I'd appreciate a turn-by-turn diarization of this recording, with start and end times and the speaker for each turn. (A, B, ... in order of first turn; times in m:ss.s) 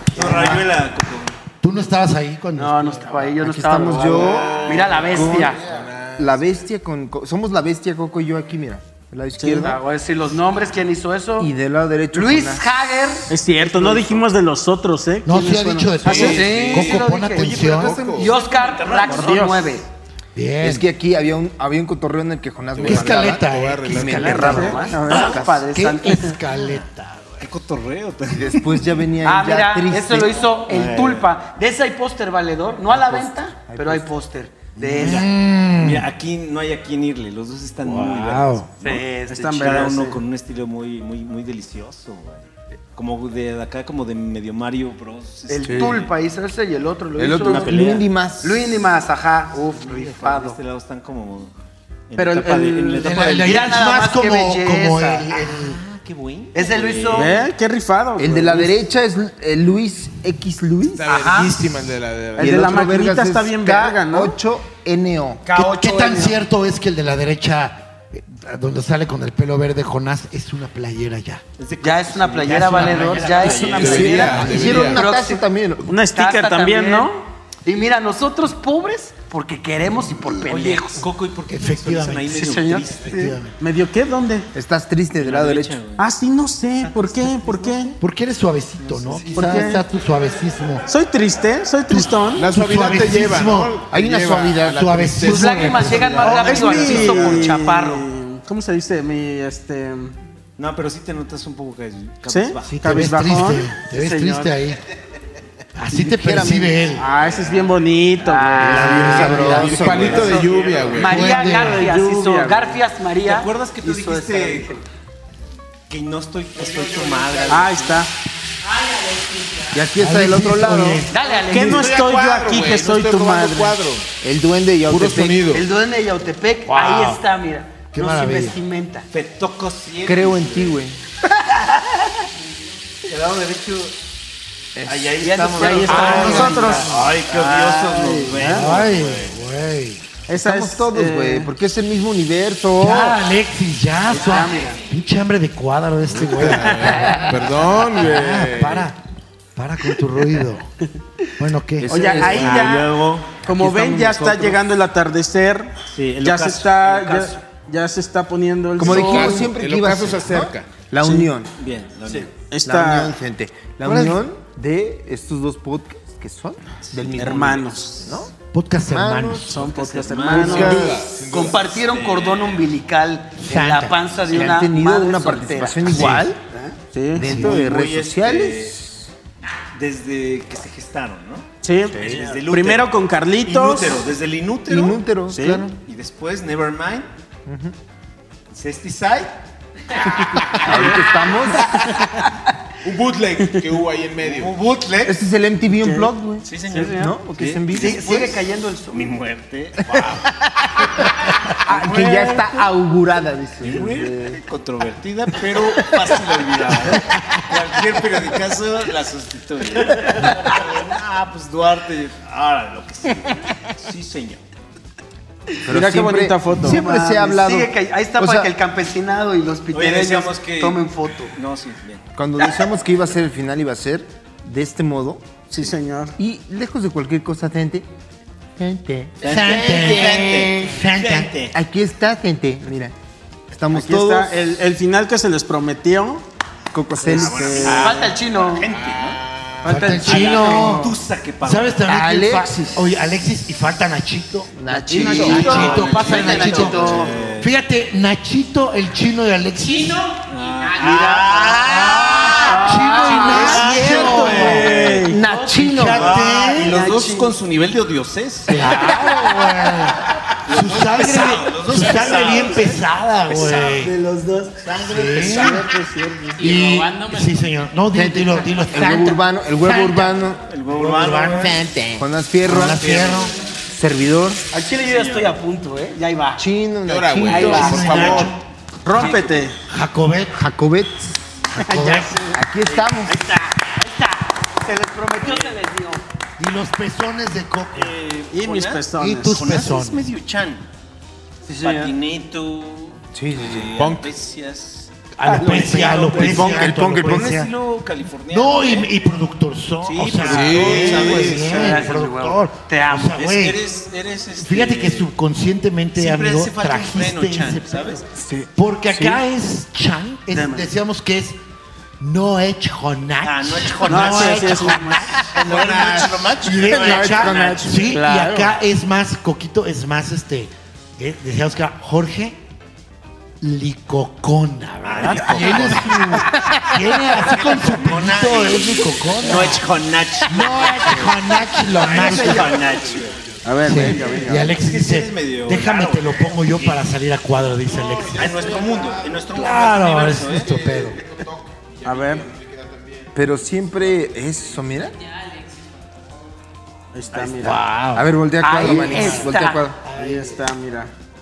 0:00.1-0:01.3 A
0:00.2-0:00.6 B
0:00.2-0:00.6 C
0:01.6-0:03.3 B
0:02.6-0:05.6 C
0:03.4-0:05.6 D
0:03.9-0:06.6 E
0:06.2-0:09.8 D
0:09.4-0:09.7 F
0:09.5-0:11.5 C
0:11.4-0:12.7 D
0:12.1-0:13.3 C
0:13.3-0:16.5 F
0:15.2-0:18.0 B
0:16.0-0:19.9 C
0:16.1-0:18.3 E
0:16.2-0:16.9 A
0:17.7-0:19.4 A
0:19.1-0:19.7 F
0:20.3-0:20.9 B
0:20.6-0:25.6 D
0:22.7-0:24.7 E
0:22.8-0:27.4 B
0:24.0-0:26.4 C
0:24.4-0:25.2 F
0:27.4-0:28.8 A
0:28.3-0:30.4 D
0:29.2-0:35.3 C
0:30.6-0:31.3 A
0:32.9-0:34.1 D
0:34.8-0:36.0 B
0:35.0-0:35.2 A
0:35.8-0:46.1 A
0:37.8-0:38.7 B
0:38.8-0:39.9 C
0:39.3-0:40.2 F
0:45.5-0:50.6 C
0:45.6-0:46.0 D
0:47.2-0:48.7 D
0:47.4-0:48.0 A
0:49.6-0:51.5 A
0:52.1-0:53.7 A
0:52.2-0:53.2 F
0:53.0-0:55.8 B
0:53.4-0:55.5 C
0:55.5-0:57.5 A
0:56.5-0:57.3 C
0:57.1-0:58.8 F
0:58.2-1:01.0 D
1:00.9-1:02.8 E
1:01.0-1:01.6 C
1:02.4-1:04.4 F
1:02.4-1:05.4 D
1:05.4-1:06.4 C
1:05.5-1:11.4 B
1:11.6-1:14.5 A
1:11.8-1:15.4 C
1:13.8-1:15.0 E
1:13.8-1:15.9 D
1:15.8-1:17.2 F
1:16.1-1:17.1 C
1:17.6-1:21.0 C
1:20.4-1:23.3 A
1:21.5-1:22.4 B
1:22.3-1:23.3 C
1:23.0-1:23.6 B
1:23.6-1:24.5 F
1:24.5-1:25.8 D
1:25.2-1:26.1 A
1:26.0-1:28.0 F
1:26.8-1:27.9 A
1:28.0-1:30.8 B
1:28.8-1:29.4 A
1:29.3-1:29.8 F
1:29.4-1:29.7 D
1:30.9-1:32.4 F
1:31.9-1:33.8 B
1:32.4-1:37.4 E
1:33.9-1:35.2 D
1:34.6-1:37.1 B
1:35.2-1:38.0 C
1:36.2-1:40.2 F
1:40.6-1:43.2 A
1:42.3-1:43.7 F
1:42.6-1:44.8 B
1:43.9-1:44.6 C
1:45.8-1:47.1 B
1:45.9-1:46.9 D
1:47.0-1:49.7 F
1:47.1-1:47.8 A
1:48.2-1:54.8 C
1:48.6-1:49.9 B
1:48.6-1:50.4 D
1:49.4-1:51.1 A
1:49.6-1:51.2 E
1:51.0-1:51.9 B
1:51.1-1:52.8 F
1:53.2-1:54.7 A
1:55.9-1:58.1 A
1:56.6-1:57.5 E
1:57.5-1:58.1 F
1:59.7-2:01.0 D
1:59.9-2:01.2 B
2:01.1-2:01.9 C
2:01.3-2:03.8 F
2:01.6-2:04.1 E
2:04.2-2:05.4 D
2:04.9-2:05.6 E
2:05.5-2:09.1 C
2:06.6-2:07.2 B
2:07.9-2:08.6 B
2:09.1-2:10.8 A
2:10.0-2:11.0 D
2:13.0-2:13.9 A
2:14.8-2:16.6 D
2:14.8-2:19.4 A
2:15.2-2:16.9 C
2:15.6-2:18.7 F
2:15.9-2:17.0 B
2:18.4-2:20.0 B
2:20.3-2:21.5 F
2:20.3-2:23.2 D
2:22.8-2:29.0 B
2:24.1-2:24.8 C
2:26.2-2:28.9 E
2:29.6-2:30.7 B
2:31.4-2:32.0 B
2:31.8-2:32.7 D
2:31.9-2:39.5 F
2:31.9-2:34.5 A
2:33.6-2:34.5 D
2:35.9-2:37.4 A
2:38.8-2:41.5 D
2:38.8-2:40.7 E
2:41.0-2:42.3 A
2:42.5-2:43.1 F
2:42.6-2:48.3 D
2:43.9-2:44.1 A
2:46.9-2:47.7 A
2:47.2-2:48.1 F
2:48.5-2:49.6 B
2:48.8-2:49.6 D
2:49.5-2:50.8 F
2:49.6-2:52.7 A
2:50.3-2:51.1 D
2:50.5-2:51.7 E
2:51.2-2:56.8 C
2:53.4-2:54.0 B
2:54.3-2:56.4 D
2:55.9-2:56.3 B
2:56.9-2:57.4 F
2:57.1-2:59.0 D
2:57.2-2:57.5 B
2:57.3-2:58.8 A
2:59.7-3:05.0 A
3:01.6-3:04.0 F
3:04.7-3:05.8 D
3:05.3-3:05.6 F
3:05.8-3:07.1 A
3:07.4-3:07.7 D
3:08.5-3:09.3 A
3:09.9-3:11.0 A
3:10.6-3:11.9 D
3:10.7-3:10.9 F
3:12.8-3:14.5 E
3:14.2-3:15.2 A
3:15.0-3:18.2 D
3:15.8-3:16.1 F
3:16.4-3:20.1 A
3:16.6-3:17.1 F
3:17.7-3:19.0 C
3:21.6-3:24.4 D
3:21.7-3:22.4 F
3:23.6-3:34.4 A
3:35.6-3:38.5 D
3:35.7-3:36.8 F
3:36.6-3:41.3 C
3:39.7-3:42.0 A
3:42.2-3:45.5 D
3:45.5-3:46.1 F
3:46.2-3:47.9 D
3:48.6-3:49.2 D
3:49.2-3:51.5 A
3:49.2-3:51.3 B
3:51.5-3:52.9 D
3:53.5-3:54.4 D
3:53.7-3:56.2 F
3:56.7-3:57.8 D
3:57.0-3:58.0 F
3:57.0-3:59.2 A
3:57.6-3:58.7 C
3:58.7-3:59.8 E
3:59.6-4:00.9 C
3:59.6-4:10.1 B
3:59.8-4:01.8 A
4:01.8-4:02.9 D
4:04.5-4:05.8 D
4:04.7-4:07.1 C
4:04.9-4:06.7 F
4:05.1-4:07.5 A
4:06.7-4:07.4 E
4:09.8-4:10.1 C
4:10.2-4:15.2 A
4:10.6-4:17.3 C
4:11.6-4:14.7 B
4:12.5-4:15.2 F
4:15.1-4:16.2 D
4:15.5-4:16.8 B
4:15.9-4:19.2 A
4:18.5-4:23.9 B
4:20.4-4:23.9 A
4:23.9-4:24.5 F
4:24.6-4:25.7 A
4:24.7-4:25.6 B
4:25.2-4:26.6 F
4:26.4-4:33.3 B
4:27.9-4:30.4 D
4:30.4-4:31.7 A
4:31.9-4:33.0 D
4:32.6-4:33.3 A
4:33.7-4:34.4 D
4:34.5-4:36.4 C
4:34.8-4:35.4 A
4:36.4-4:38.1 D
4:36.8-4:38.3 E
4:37.2-4:38.4 B
4:37.3-4:38.2 C
4:37.9-4:38.2 A
4:38.8-4:39.6 F
4:38.9-4:39.5 A
4:39.7-4:40.4 B
4:40.4-4:41.2 D
4:41.5-4:42.2 B
4:41.7-4:42.2 C
4:42.3-4:43.2 D
4:42.7-4:46.0 C
4:45.2-4:45.5 A
4:46.4-4:48.0 B
4:47.7-4:50.6 A
4:48.3-4:49.5 F
4:48.9-4:50.1 B
4:51.5-4:51.9 C
4:51.5-4:59.0 A
4:53.1-4:53.7 D
4:53.7-4:54.1 E
4:55.2-4:57.5 B
4:55.3-4:56.4 F
4:56.2-4:57.4 D
4:58.3-5:03.6 B
4:59.8-5:02.0 A
5:00.3-5:01.3 E
5:01.4-5:03.2 C
5:03.1-5:05.1 A
5:04.4-5:08.0 B
5:05.9-5:08.0 A
5:08.1-5:09.2 D
5:08.6-5:11.4 B
5:10.3-5:10.6 F
5:10.3-5:10.6 C
5:12.0-5:22.4 B
5:13.2-5:14.8 A
5:13.8-5:15.2 F
5:15.3-5:18.0 A
5:16.5-5:18.0 D
5:17.9-5:18.5 C
5:23.4-5:29.7 B
5:24.8-5:33.2 A
5:25.1-5:25.7 F
5:30.3-5:32.7 B
5:33.4-5:34.6 F
5:33.6-5:38.5 B
5:33.7-5:36.8 A
5:37.7-5:39.2 E
5:38.1-5:40.8 A
5:39.3-5:41.0 B
5:41.2-5:43.1 E
5:41.8-5:42.3 F
5:43.1-5:45.0 D
5:46.9-5:47.6 F
5:47.2-5:48.1 B
5:47.9-5:49.8 D
5:48.4-5:49.6 C
5:48.6-5:49.2 F
5:48.7-5:49.2 B
5:49.8-5:50.5 B
5:49.9-5:50.9 F